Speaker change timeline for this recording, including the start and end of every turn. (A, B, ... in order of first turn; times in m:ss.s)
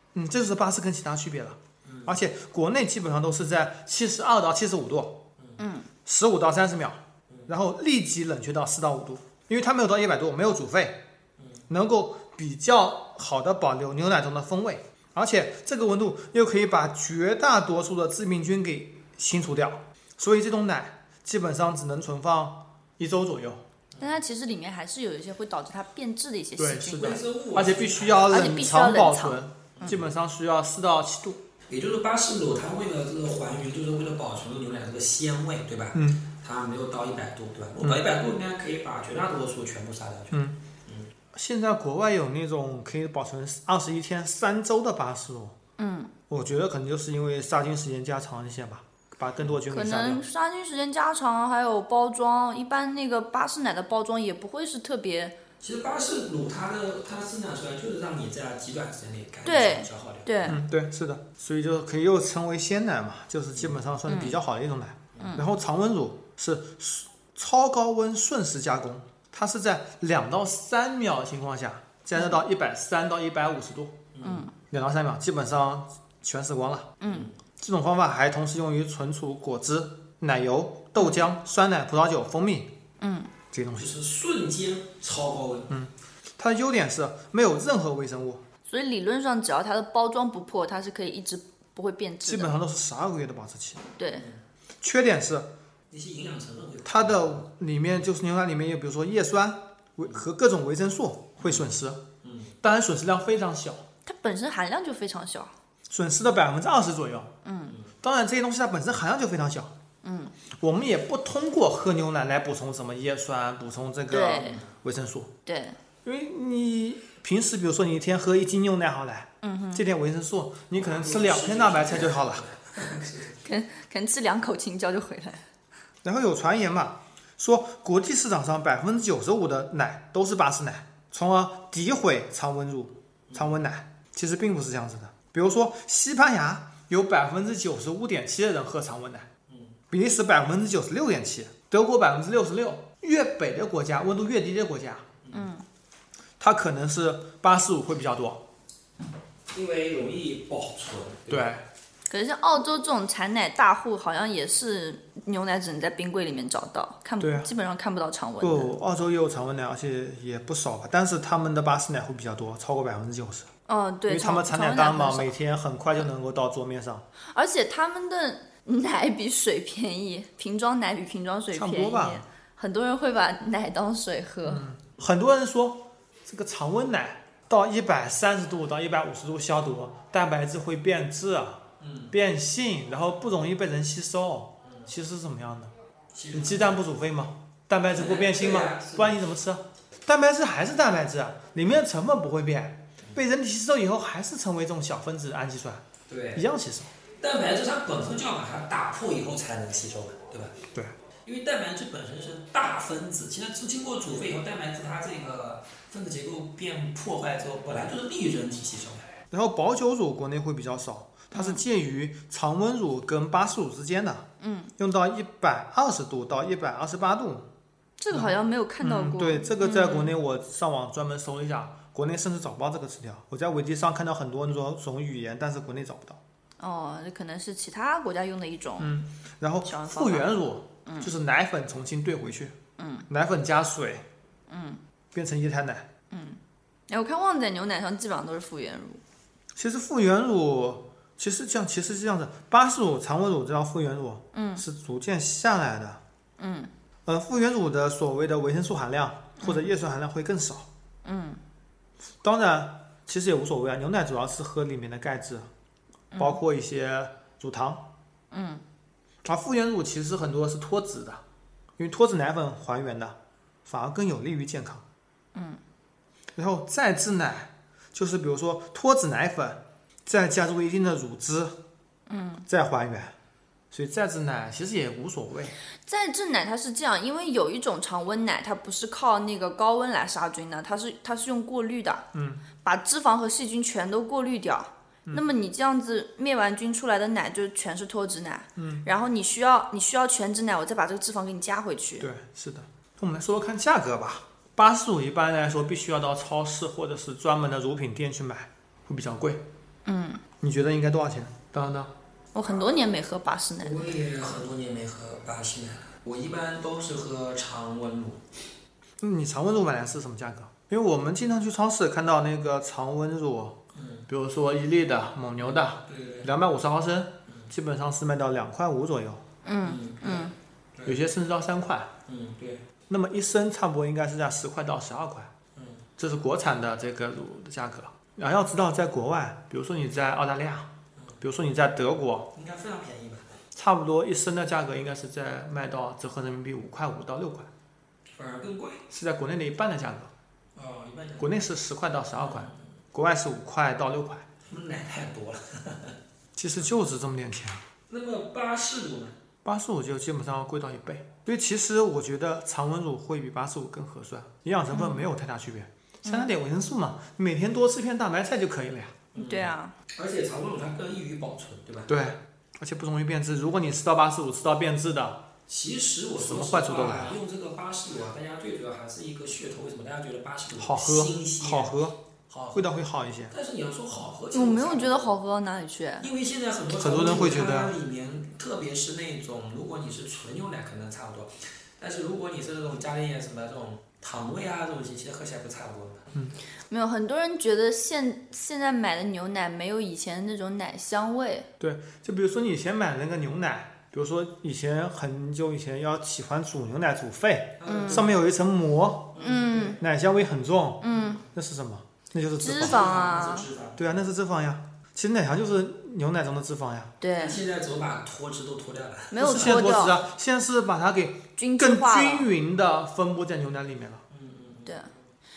0:00.2-0:05.2 A
0:01.8-0:02.2 B
0:05.6-0:05.9 C
0:06.1-0:11.0 A
0:11.7-0:23.6 A
0:23.9-0:24.2 B
0:24.0-0:27.2 C
0:26.6-0:31.4 A
0:26.9-0:28.4 B
0:28.3-0:29.4 C
0:29.8-0:30.1 B
0:31.7-0:41.1 B
0:35.9-0:36.3 A
0:40.3-0:40.6 A
0:41.3-0:45.6 A
0:45.8-0:46.1 C
0:46.3-0:50.2 A
0:49.7-0:55.4 C
0:55.6-1:00.6 B
0:59.4-1:00.6 C
1:00.5-1:14.1 A
1:04.1-1:04.4 C
1:14.1-1:14.5 B
1:14.2-1:14.5 C
1:14.7-1:16.9 A
1:17.0-1:17.3 C
1:17.1-1:17.3 B
1:17.6-1:22.7 A
1:21.0-1:21.3 C
1:23.0-1:23.3 C
1:23.5-1:23.9 A
1:23.8-1:25.7 B
1:25.7-1:28.4 A
1:28.7-1:32.5 C
1:32.2-1:33.8 A
1:34.0-1:34.3 C
1:34.2-1:34.4 B
1:34.8-1:35.5 A
1:35.9-1:37.4 B
1:36.8-1:42.0 A
1:41.4-1:42.6 B
1:42.6-1:43.8 A
1:44.1-1:45.5 C
1:45.9-1:47.3 A
1:47.4-1:47.8 C
1:48.0-1:49.7 A
1:50.0-1:50.3 C
1:50.6-1:55.3 A
1:54.1-1:54.6 C
1:54.2-1:54.7 B
1:55.5-1:55.8 C
1:56.0-2:02.5 A
1:59.4-1:59.8 C
2:00.8-2:03.4 B
2:03.4-2:05.4 C
2:06.0-2:19.3 A
2:13.3-2:13.6 B
2:19.5-2:19.8 B
2:19.9-2:25.1 A
2:25.2-2:25.5 B
2:25.3-2:25.6 C
2:26.4-2:28.4 A
2:29.5-2:31.5 B
2:31.3-2:31.6 A
2:32.1-2:38.7 C
2:37.2-2:37.5 A
2:38.4-2:43.5 A
2:43.7-2:45.3 C
2:44.1-2:47.0 A
2:47.3-2:54.7 C
2:51.5-2:52.2 A
2:54.5-3:05.7 A
3:01.8-3:02.1 B
3:06.1-3:06.8 B
3:06.3-3:15.8 A
3:08.0-3:09.2 B
3:16.1-3:16.4 B
3:16.4-3:16.9 A
3:17.2-3:20.6 B
3:21.2-3:29.0 B
3:29.3-3:34.3 A
3:31.3-3:31.6 C
3:34.4-3:34.7 C
3:34.8-3:37.5 A
3:38.0-3:40.2 C
3:38.1-3:46.2 A
3:46.6-3:48.9 C
3:48.8-3:52.6 A
3:49.6-3:50.3 C
3:50.9-3:51.1 C
3:52.8-3:53.1 C
3:53.1-3:54.1 A
3:54.5-3:54.8 C
3:55.1-3:55.9 A
3:56.1-3:59.0 C
3:59.6-4:06.0 A
4:04.3-4:04.6 C
4:06.4-4:06.7 C
4:07.1-4:10.7 A
4:09.4-4:09.7 C
4:11.0-4:11.4 C
4:12.2-4:15.5 A
4:16.1-4:16.4 C
4:16.2-4:17.9 A
4:18.3-4:18.6 C
4:19.2-4:21.2 A
4:21.8-4:24.8 A
4:25.4-4:25.6 C
4:26.4-4:31.6 A
4:32.1-4:32.5 C
4:32.5-4:33.1 A
4:33.7-4:35.6 A
4:35.9-4:42.1 C
4:42.1-4:42.4 A
4:42.6-4:52.1 C
4:48.6-4:48.9 A
4:52.0-4:59.4 A
4:59.9-5:00.2 C
5:00.4-5:01.9 A
5:02.3-5:03.9 C
5:03.6-5:08.2 B
5:09.0-5:13.6 A
5:13.7-5:14.1 B
5:14.1-5:19.2 A
5:15.4-5:16.3 B
5:17.3-5:17.5 B
5:19.4-5:20.3 C
5:19.6-5:21.0 B
5:20.9-5:22.0 A
5:22.1-5:22.7 B
5:22.9-5:25.3 A
5:25.6-5:25.9 B
5:26.0-5:32.3 A
5:32.3-5:33.4 B
5:33.6-5:37.5 A
5:38.2-5:38.8 B
5:38.9-5:40.1 A
5:40.6-5:41.3 B
5:41.2-5:44.3 A
5:42.2-5:42.6 B
5:44.5-5:46.0 B
5:46.4-5:47.6 A
5:47.9-5:49.2 B
5:49.4-5:59.0 A
5:54.7-5:55.1 C
5:56.0-5:56.3 C
5:59.1-6:01.9 B
5:59.2-5:59.8 C
6:01.9-6:05.3 A
6:05.5-6:11.8 B
6:06.2-6:07.2 A
6:10.6-6:12.0 A
6:12.3-6:12.8 B
6:12.5-6:13.3 A
6:13.3-6:15.1 B
6:14.3-6:16.1 C
6:16.0-6:26.1 B
6:16.8-6:17.8 A
6:26.7-6:31.5 C
6:31.6-6:39.2 A
6:37.6-6:38.2 B
6:37.7-6:38.1 C
6:39.1-6:39.8 B
6:39.2-6:39.8 C
6:39.8-6:42.9 A
6:40.8-6:41.2 C
6:40.9-6:41.2 B
6:42.4-6:43.5 C
6:42.5-6:44.0 B
6:43.8-6:47.0 A
6:47.0-6:47.4 C
6:47.2-6:49.6 B
6:49.1-6:50.0 C
6:49.2-6:54.0 A
6:51.4-6:52.3 C
6:54.1-6:55.0 B